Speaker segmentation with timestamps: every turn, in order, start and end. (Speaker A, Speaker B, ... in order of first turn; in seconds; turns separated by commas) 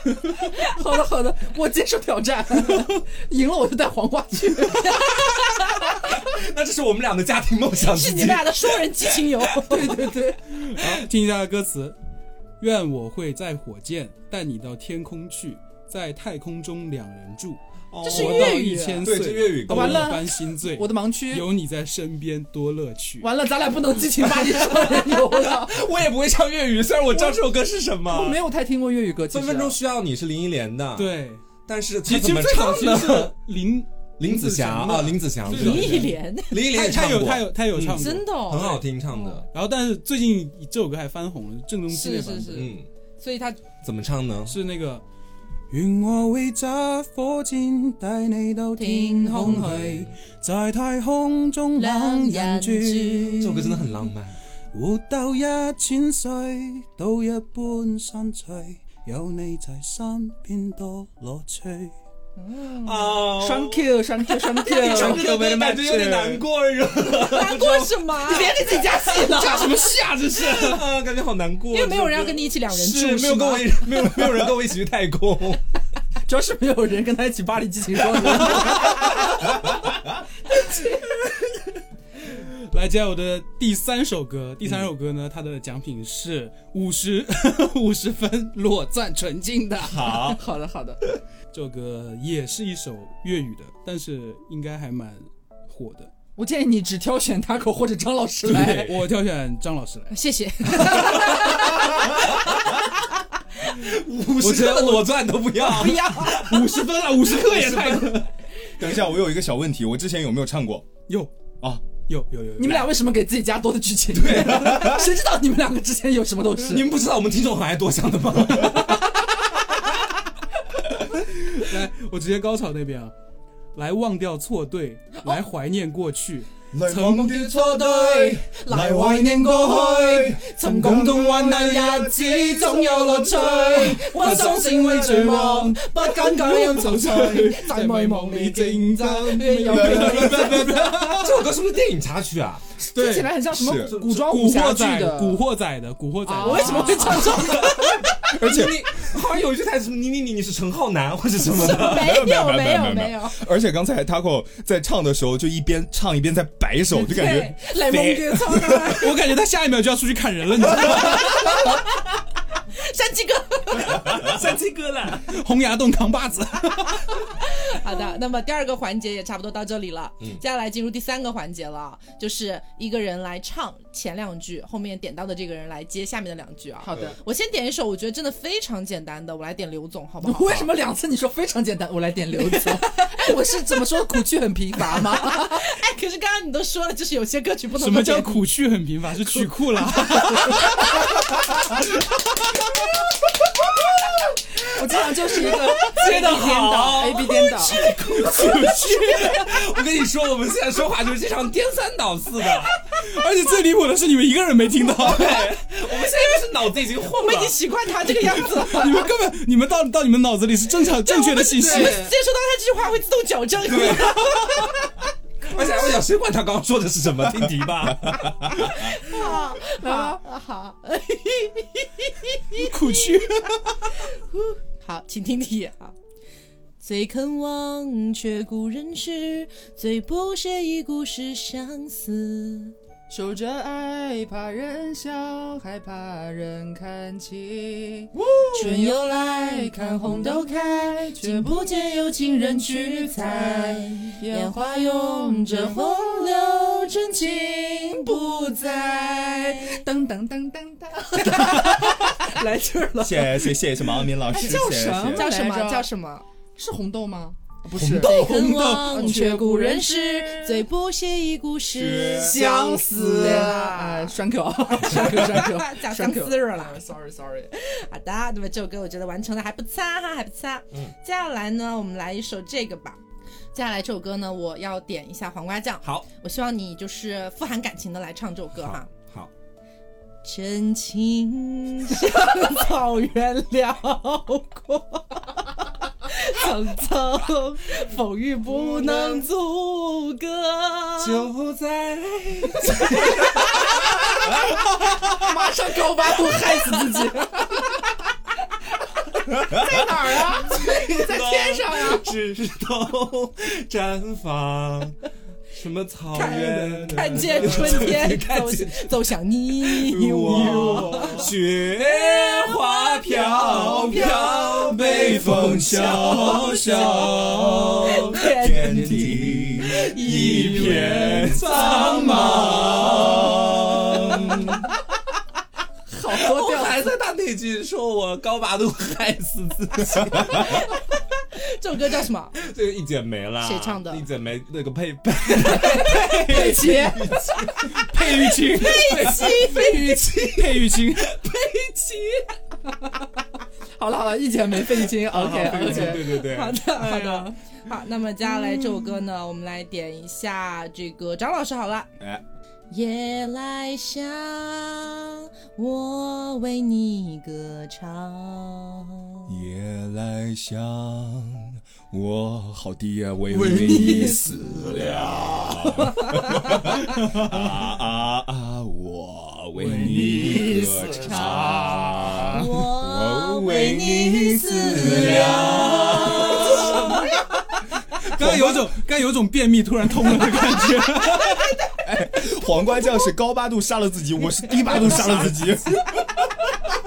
Speaker A: 0.3-5.4, Speaker B: 6.0-9.4, Speaker C: 7.8-10.0, Speaker A: 9.7-10.4, Speaker D: 10.5-12.0, Speaker D: 12.6-23.3, Speaker B: 17.9-20.2, Speaker C: 18.0-18.7, Speaker A: 18.1-21.5, Speaker A: 23.2-25.8, Speaker B: 24.4-28.4, Speaker A: 27.1-27.5, Speaker A: 28.1-29.8, Speaker B: 29.3-33.3, Speaker D: 30.9-31.4, Speaker D: 32.0-38.3, Speaker B: 34.2-39.5, Speaker C: 35.5-36.7, Speaker C: 37.9-39.5, Speaker D: 39.5-42.7, Speaker C: 41.9-43.6, Speaker B: 42.5-42.9, Speaker B: 43.8-44.6, Speaker D: 44.5-45.0, Speaker D: 45.7-53.6, Speaker C: 48.8-49.9, Speaker B: 49.4-50.1, Speaker C: 51.8-53.8, Speaker B: 53.4-54.4, Speaker D: 54.7-61.9, Speaker C: 62.4-63.3, Speaker B: 62.8-68.1, Speaker A: 63.2-66.4, Speaker C: 64.7-65.2, Speaker D: 65.2-66.1, Speaker C: 67.0-68.6, Speaker A: 68.2-70.0, Speaker D: 69.2-70.9, Speaker B: 70.3-75.6, Speaker C: 71.7-73.9, Speaker A: 76.3-79.7, Speaker A: 80.5-81.0, Speaker D: 82.3-89.7, Speaker A: 89.6-91.0, Speaker B: 89.8-90.4, Speaker D: 91.5-96.1, Speaker A: 96.4-99.0, Speaker B: 98.5-98.9, Speaker D: 98.5-100.1, Speaker C: 100.1-101.9, Speaker B: 101.0-101.3, Speaker A: 101.0-101.5, Speaker B: 103.7-108.2, Speaker D: 104.4-104.9, Speaker C: 105.7-106.3, Speaker D: 106.2-108.3, Speaker E: 108.8-110.9, Speaker D: 112.0-112.9, Speaker A: 112.6-117.0, Speaker B: 114.1-115.0, Speaker B: 116.6-119.1, Speaker D: 121.1-123.1, Speaker D: 123.7-127.5, Speaker E: 126.7-133.8, Speaker C: 127.6-138.5, Speaker D: 130.7-141.4, Speaker A: 136.5-141.1, Speaker C: 139.3-140.2, Speaker E: 139.6-140.8, Speaker B: 140.0-142.6, Speaker A: 142.8-145.4, Speaker D: 142.9-147.6, Speaker E: 143.5-144.0, Speaker A: 146.2-148.2, Speaker C: 146.3-147.9, Speaker B: 147.1-152.2, Speaker E: 148.3-148.9, Speaker C: 151.5-153.4, Speaker E: 151.8-157.8, Speaker C: 156.9-159.1, Speaker A: 157.6-158.7, Speaker E: 158.3-159.0, Speaker D: 158.9-161.5, Speaker C: 161.0-161.9, Speaker C: 162.7-164.3, Speaker B: 164.0-165.3, Speaker D: 165.3-167.2, Speaker C: 167.3-180.6, Speaker A: 176.8-177.2, Speaker A: 180.2-185.6, Speaker C: 182.4-184.0, Speaker C: 184.9-188.5, Speaker D: 187.8-190.8, Speaker A: 189.8-190.7, Speaker A: 194.7-197.8, Speaker B: 195.8-202.7, Speaker D: 197.7-199.5, Speaker D: 202.9-205.6, Speaker B: 204.9-207.6, Speaker C: 205.9-209.1, Speaker D: 208.2-212.1, Speaker C: 211.0-214.7, Speaker A: 211.6-212.1, Speaker B: 213.7-214.7, Speaker B: 215.5-218.3, Speaker E: 218.0-218.6, Speaker C: 218.5-223.0, Speaker A: 219.1-220.2, Speaker D: 222.5-223.8, Speaker C: 224.3-225.9, Speaker C: 226.8-232.7, Speaker A: 233.1-246.5, Speaker C: 238.6-249.8, Speaker A: 247.9-248.6, Speaker A: 249.5-255.9, Speaker C: 251.6-251.9, Speaker E: 253.0-255.3, Speaker C: 254.4-256.2, Speaker A: 256.6-260.7, Speaker B: 257.8-258.6, Speaker C: 258.0-264.2, Speaker E: 261.7-262.4, Speaker A: 262.2-267.5, Speaker C: 264.7-266.8, Speaker C: 267.5-273.0, Speaker C: 273.5-278.9, Speaker B: 278.6-279.3, Speaker C: 280.2-285.4, Speaker C: 286.1-291.3, Speaker A: 288.4-289.3, Speaker B: 291.0-293.9, Speaker A: 292.6-298.0, Speaker B: 296.3-296.9, Speaker A: 299.3-302.1, Speaker E: 299.5-299.8, Speaker B: 300.4-305.0, Speaker B: 305.5-309.0, Speaker C: 306.1-311.2, Speaker E: 306.2-307.9, Speaker B: 309.6-318.2, Speaker E: 310.2-311.1, Speaker D: 310.5-311.1, Speaker C: 311.9-314.6, Speaker E: 313.4-321.6, Speaker C: 316.1-317.1, Speaker C: 317.8-320.7, Speaker B: 319.9-324.6, Speaker D: 320.3-322.9, Speaker E: 322.2-324.6, Speaker A: 325.9-326.9, Speaker B: 326.1-330.7, Speaker C: 330.3-330.7, Speaker C: 331.4-332.4, Speaker B: 332.4-342.1, Speaker C: 333.4-334.1, Speaker A: 335.2-337.5, Speaker D: 337.7-341.2, Speaker C: 338.4-340.2, Speaker A: 343.8-346.2, Speaker B: 344.9-346.9, Speaker C: 345.8-351.9, Speaker A: 346.8-347.3, Speaker C: 352.7-359.3, Speaker E: 359.3-377.0, Speaker D: 363.3-363.8, Speaker A: 363.4-365.9, Speaker D: 369.6-372.3, Speaker A: 369.7-372.2, Speaker C: 372.2-377.0, Speaker D: 378.1-381.4, Speaker E: 378.1-378.7, Speaker E: 381.8-386.7, Speaker B: 384.6-385.6